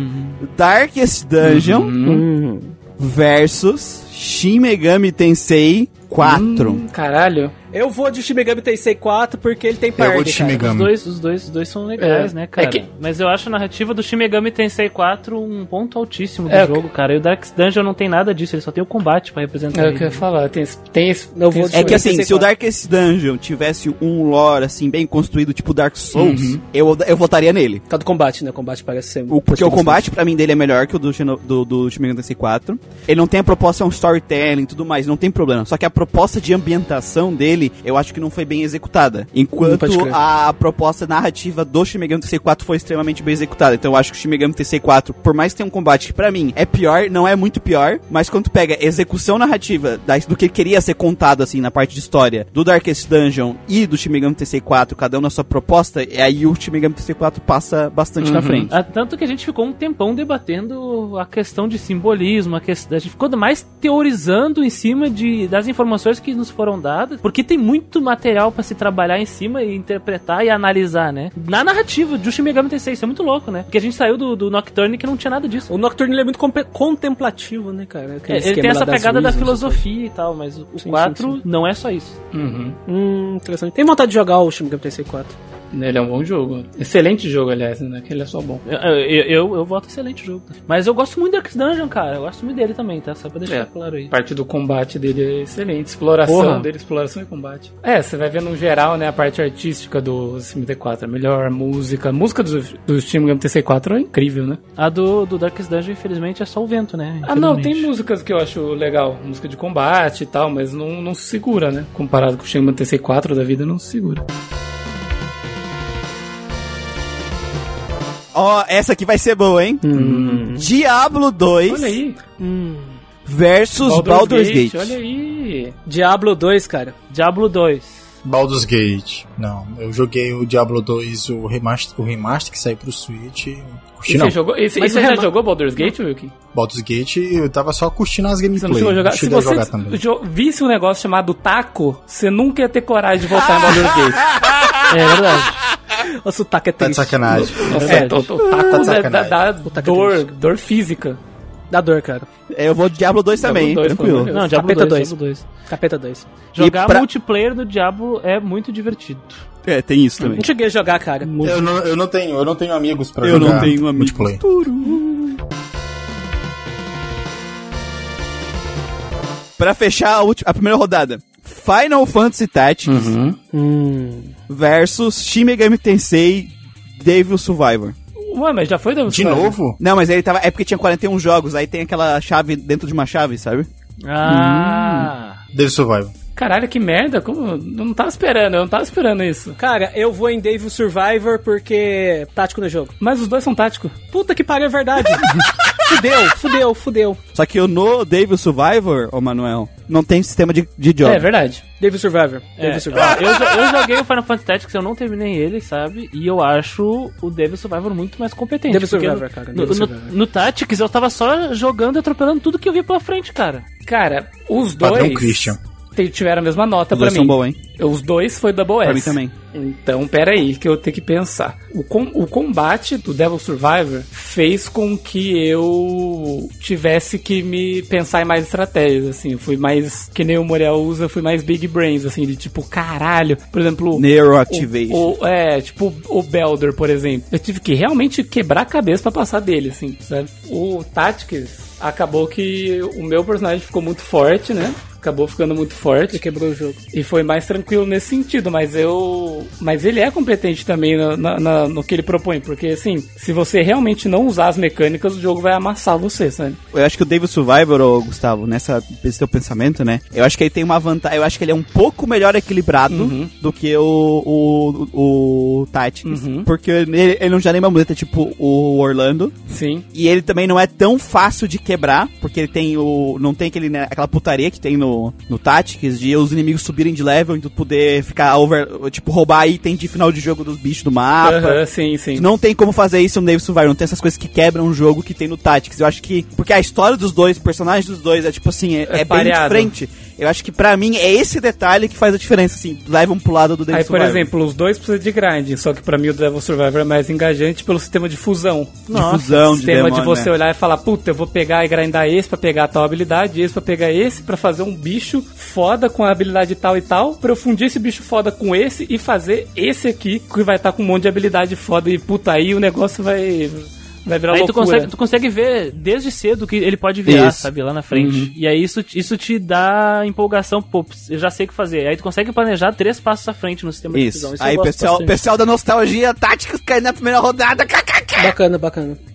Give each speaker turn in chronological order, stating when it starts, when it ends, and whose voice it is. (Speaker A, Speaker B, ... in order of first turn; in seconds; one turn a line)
Speaker A: 0.4-1.9
Speaker B: 1.4-2.2
Speaker C: 2.0-2.7
Speaker A: 3.0-6.8
Speaker B: 6.2-7.5
Speaker C: 7.7-10.7
Speaker D: 10.0-10.9
Speaker E: 10.6-20.2
Speaker B: 12.0-12.9
Speaker B: 16.5-16.8
Speaker B: 19.7-22.1
Speaker C: 21.3-22.5
Speaker A: 21.7-27.8
Speaker B: 26.1-26.6
Speaker C: 27.9-30.1
Speaker A: 29.3-58.7
Speaker C: 39.6-40.2
Speaker B: 58.2-58.7
Speaker E: 58.7-75.7
Speaker C: 75.7-79.8
Speaker E: 78.3-82.2
Speaker C: 80.8-81.4
Speaker B: 82.3-82.8
Speaker C: 82.9-85.4
Speaker B: 85.7-88.6
Speaker E: 88.7-94.1
Speaker B: 93.5-104.6
Speaker E: 96.2-96.7
Speaker E: 104.8-107.9
Speaker B: 107.2-114.2
Speaker A: 118.3-119.9
Speaker C: 119.8-120.7
Speaker B: 119.9-120.5
Speaker A: 120.5-122.0
Speaker B: 121.7-122.2
Speaker C: 122.4-123.0
Speaker A: 123.2-125.0
Speaker B: 123.8-125.7
Speaker C: 125.9-126.9
Speaker E: 127.1-128.0
Speaker D: 128.2-134.4
Speaker B: 134.1-136.3
Speaker C: 134.8-135.9
Speaker D: 136.5-140.0
Speaker B: 138.6-144.3
Speaker A: 144.4-144.8
Speaker E: 144.9-145.6
Speaker C: 146.2-148.1
Speaker D: 146.8-148.1
Speaker B: 147.3-151.2
Speaker E: 147.8-148.2
Speaker A: 148.4-148.8
Speaker D: 148.7-149.4
Speaker C: 149.6-150.3
Speaker C: 151.7-152.3
Speaker A: 152.5-154.3
Speaker B: 153.4-154.5
Speaker E: 154.3-155.4
Speaker C: 154.4-155.1
Speaker C: 155.7-156.3
Speaker E: 156.5-159.4
Speaker A: 156.6-157.1
Speaker A: 159.6-160.4
Speaker C: 160.4-161.3
Speaker B: 161.2-161.6
Speaker D: 161.4-164.4
Speaker A: 163.2-165.1
Speaker B: 163.3-163.7
Speaker A: 169.6-173.2
Speaker B: 172.9-173.4
Speaker C: 173.5-174.3
Speaker A: 174.5-177.9
Speaker B: 178.3-179.6
Speaker D: 179.1-179.8
Speaker A: 179.8-183.7
Speaker E: 184.0-185.4
Speaker D: 185.5-186.1
Speaker B: 186.4-189.6
Speaker C: 189.6-192.9
Speaker B: 193.0-193.9
Speaker C: 194.1-195.3
Speaker C: 195.8-197.2
Speaker A: 197.3-201.3
Speaker B: 201.0-201.6
Speaker C: 201.8-203.2
Speaker E: 202.6-213.7
Speaker C: 208.7-210.1
Speaker B: 213.9-246.2
Speaker D: 214.8-215.6
Speaker A: 216.9-217.6
Speaker A: 218.8-219.3
Speaker A: 233.9-235.2
Speaker C: 246.1-246.8
Speaker B: 246.9-256.6
Speaker A: 256.7-269.4
Speaker B: 262.9-263.3
Speaker B: 266.0-266.5
Speaker B: 269.5-269.8
Speaker A: 269.9-281.6
Speaker B: 281.2-282.3
Speaker A: 282.1-294.3
Speaker B: 288.9-289.7
Speaker B: 293.7-298.9
Speaker E: 298.9-299.4
Speaker A: 298.9-300.3
Speaker B: 299.5-314.9
Speaker E: 314.3-325.2
Speaker A: 317.1-317.5
Speaker B: 317.9-318.3
Speaker A: 323.9-328.3
Speaker C: 328.2-329.0